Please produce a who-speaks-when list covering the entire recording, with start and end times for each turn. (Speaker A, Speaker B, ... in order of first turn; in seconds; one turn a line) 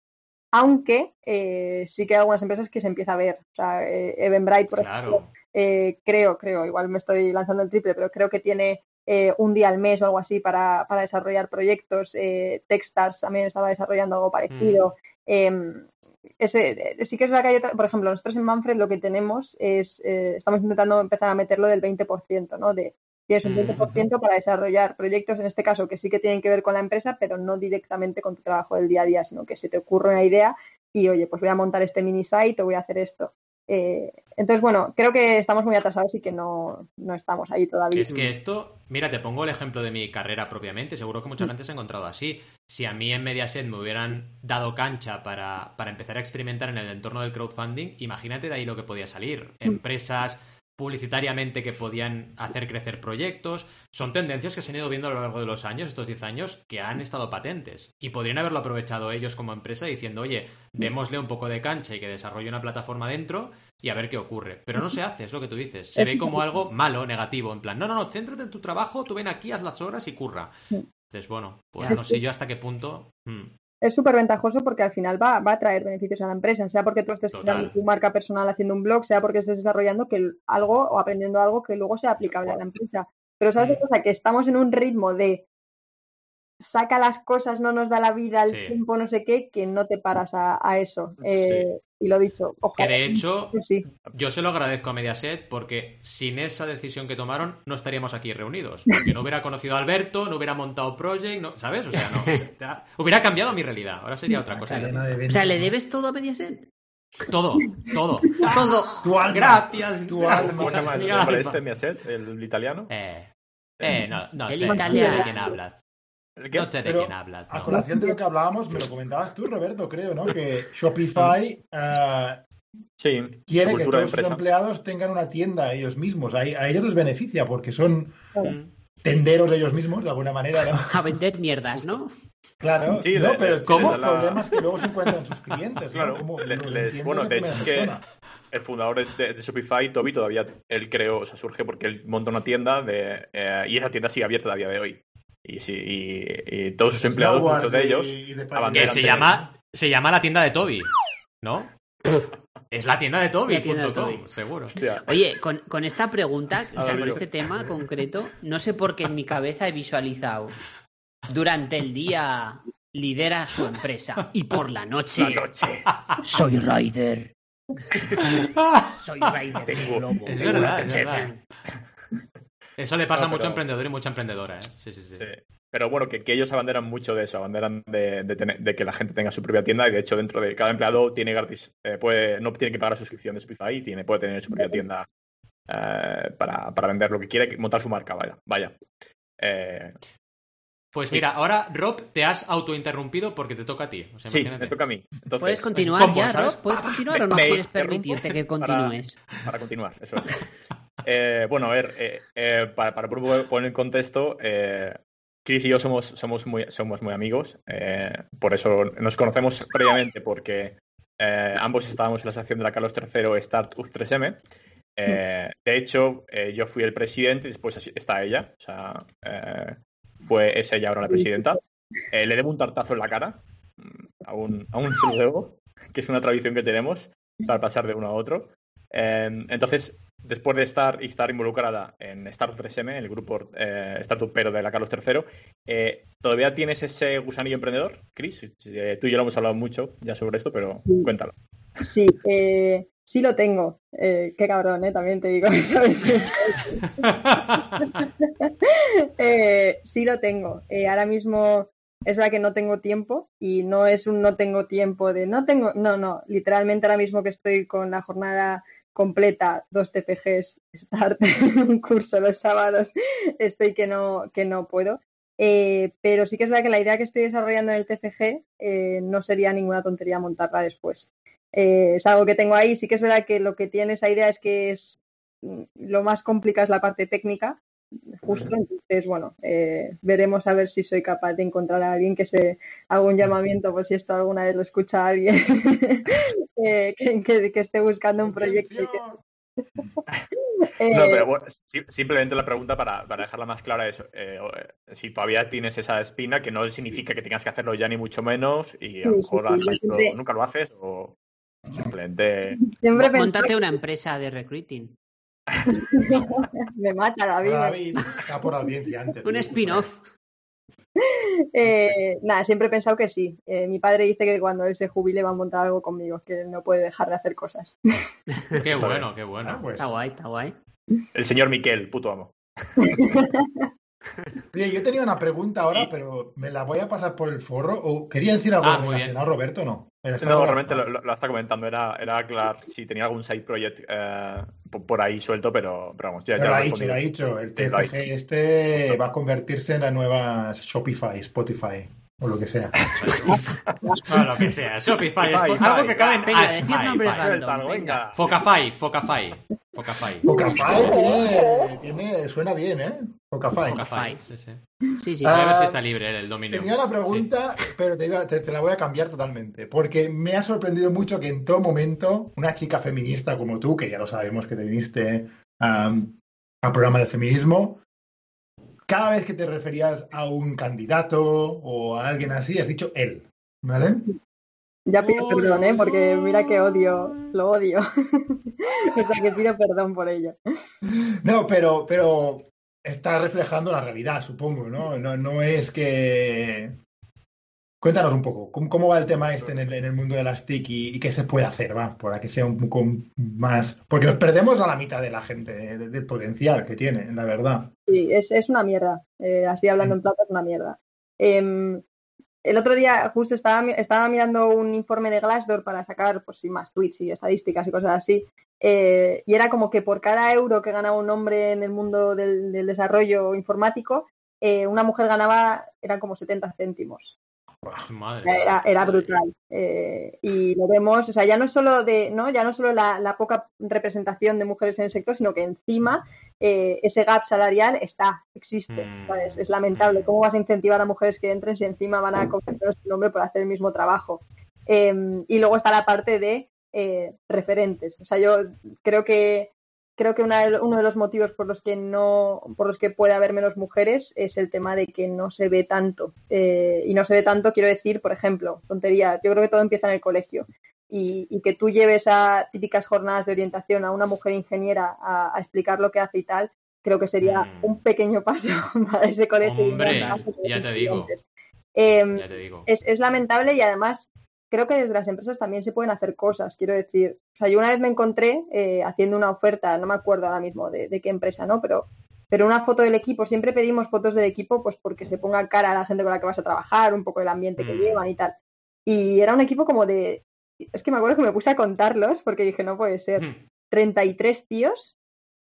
Speaker A: 0.5-15.9
Speaker B: 4.8-5.3
Speaker B: 14.5-14.9
Speaker A: 16.4-38.1
Speaker B: 23.4-24.1
Speaker B: 37.9-70.5
Speaker C: 38.1-38.3
Speaker A: 66.0-66.5
Speaker B: 71.1-73.5
Speaker A: 71.9-72.2
Speaker A: 73.8-85.5
Speaker B: 77.3-77.8
Speaker D: 82.3-82.6
Speaker A: 86.6-93.8
Speaker B: 88.5-88.8
Speaker D: 91.2-91.7
Speaker B: 92.8-93.6
Speaker B: 94.1-105.2
Speaker E: 104.5-105.7
Speaker C: 104.7-106.7
Speaker B: 107.3-111.6
Speaker C: 108.3-109.0
Speaker E: 109.0-111.3
Speaker D: 110.4-112.9
Speaker B: 112.9-113.3
Speaker B: 113.8-115.8
Speaker C: 114.5-115.5
Speaker A: 114.7-115.6
Speaker D: 116.4-116.7
Speaker B: 116.5-117.7
Speaker E: 116.8-122.4
Speaker A: 117.7-118.2
Speaker D: 123.0-124.4
Speaker E: 123.5-128.4
Speaker B: 128.4-128.7
Speaker E: 129.0-131.0
Speaker C: 130.8-132.1
Speaker E: 132.6-138.0
Speaker D: 133.0-134.6
Speaker B: 133.7-134.2
Speaker D: 135.9-138.0
Speaker D: 138.5-149.4
Speaker E: 146.9-149.5
Speaker B: 148.7-150.9
Speaker B: 151.4-151.7
Speaker B: 152.7-154.8
Speaker C: 153.5-154.3
Speaker D: 154.7-155.0
Speaker C: 154.8-160.6
Speaker D: 156.8-157.2
Speaker C: 161.3-165.5
Speaker D: 165.2-165.9
Speaker B: 165.9-166.2
Speaker C: 166.2-167.3
Speaker C: 167.9-168.4
Speaker B: 168.2-168.9
Speaker C: 169.0-171.4
Speaker D: 169.7-171.3
Speaker B: 170.2-171.3
Speaker B: 172.8-175.3
Speaker D: 173.1-173.6
Speaker D: 175.2-185.1
Speaker D: 185.7-188.8
Speaker D: 189.4-190.0
Speaker B: 190.9-194.8
Speaker D: 194.3-196.0
Speaker C: 195.4-199.3
Speaker B: 195.8-197.6
Speaker D: 197.3-200.4
Speaker D: 201.0-214.4
Speaker D: 215.0-221.6
Speaker A: 221.2-221.5
Speaker D: 222.1-241.3
Speaker A: 240.8-241.1
Speaker A: 241.8-247.1
Speaker B: 247.0-247.8
Speaker A: 247.8-277.6
Speaker A: 278.1-289.0
Speaker E: 288.2-289.2
Speaker A: 290.8-291.3
Speaker D: 290.9-301.1
Speaker A: 299.0-300.1
Speaker D: 301.8-303.0
Speaker A: 302.6-303.6
Speaker C: 303.1-304.9
Speaker A: 305.7-307.9
Speaker E: 307.4-309.9
Speaker C: 309.2-310.0
Speaker A: 311.1-318.1
Speaker B: 318.6-319.6
Speaker E: 318.7-319.9
Speaker C: 319.8-320.6
Speaker D: 321.1-323.1
Speaker A: 322.8-323.6
Speaker E: 324.5-330.8
Speaker B: 328.6-329.1
Speaker D: 330.2-337.0
Speaker E: 336.4-343.3
Speaker D: 337.5-337.9
Speaker D: 342.9-343.1
Speaker B: 342.9-343.4
Speaker B: 344.1-347.3
Speaker D: 345.2-346.5
Speaker C: 346.2-348.1
Speaker D: 347.0-348.4
Speaker B: 348.1-350.3
Speaker E: 350.2-353.9
Speaker A: 350.3-350.6
Speaker C: 353.7-354.2
Speaker B: 353.7-354.6
Speaker C: 355.0-355.4
Speaker E: 355.2-355.8
Speaker B: 355.3-357.3
Speaker E: 356.5-367.8
Speaker E: 368.9-374.1
Speaker A: 374.9-380.7
Speaker B: 375.0-377.3
Speaker E: 380.9-386.8
Speaker E: 387.8-397.7
Speaker A: 397.9-401.8
Speaker A: 402.4-417.2
Speaker B: 417.9-419.1
Speaker A: 418.2-461.2
Speaker B: 428.7-430.1
Speaker B: 457.2-457.8
Speaker B: 459.4-461.1
Speaker C: 459.8-460.3
Speaker A: 461.8-478.4
Speaker B: 462.1-462.7
Speaker B: 477.6-478.1
Speaker A: 478.9-484.9
Speaker B: 483.2-483.4